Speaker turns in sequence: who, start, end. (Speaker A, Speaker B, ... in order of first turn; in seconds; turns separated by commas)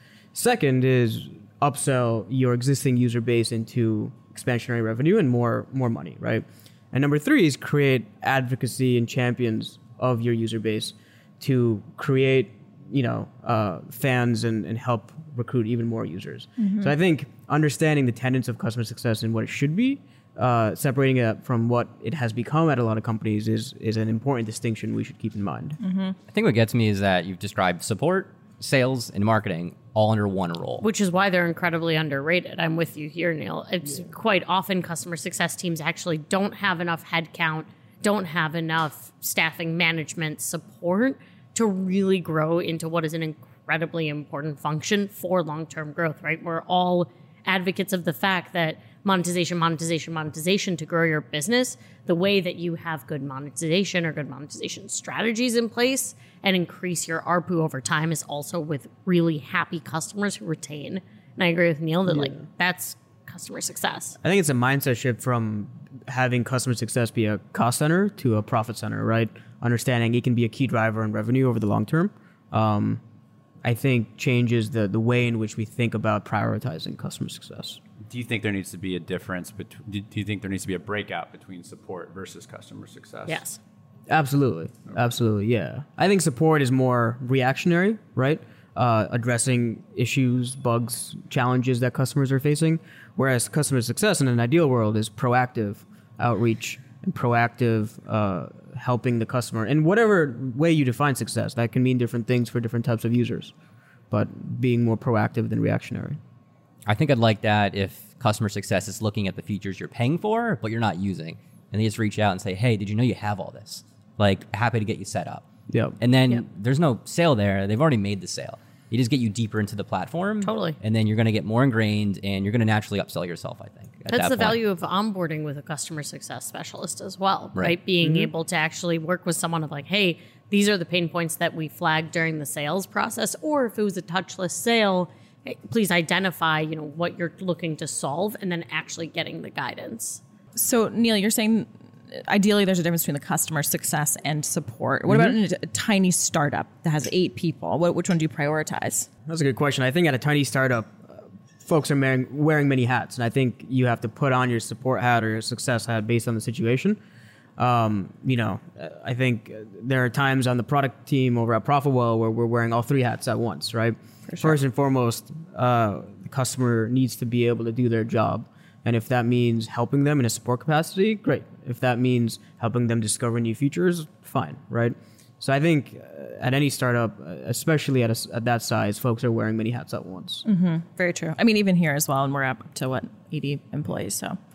Speaker A: 0.3-25.8, Speaker B: 16.6-16.9, Speaker B: 25.8-26.1, Speaker C: 26.3-30.8, Speaker D: 30.8-64.1, Speaker A: 64.2-73.0, Speaker A: 73.6-77.8, Speaker E: 78.0-83.4, Speaker D: 83.2-83.6, Speaker A: 84.1-103.5, Speaker A: 104.1-106.2, Speaker C: 106.8-115.4, Speaker A: 115.7-116.0, Speaker C: 116.0-124.6, Speaker D: 120.4-120.8, Speaker D: 124.1-140.2, Speaker C: 127.5-128.3, Speaker B: 140.5-149.1, Speaker A: 145.1-145.4, Speaker A: 149.2-157.0, Speaker A: 157.6-180.4, Speaker B: 164.3-164.6, Speaker B: 180.4-184.4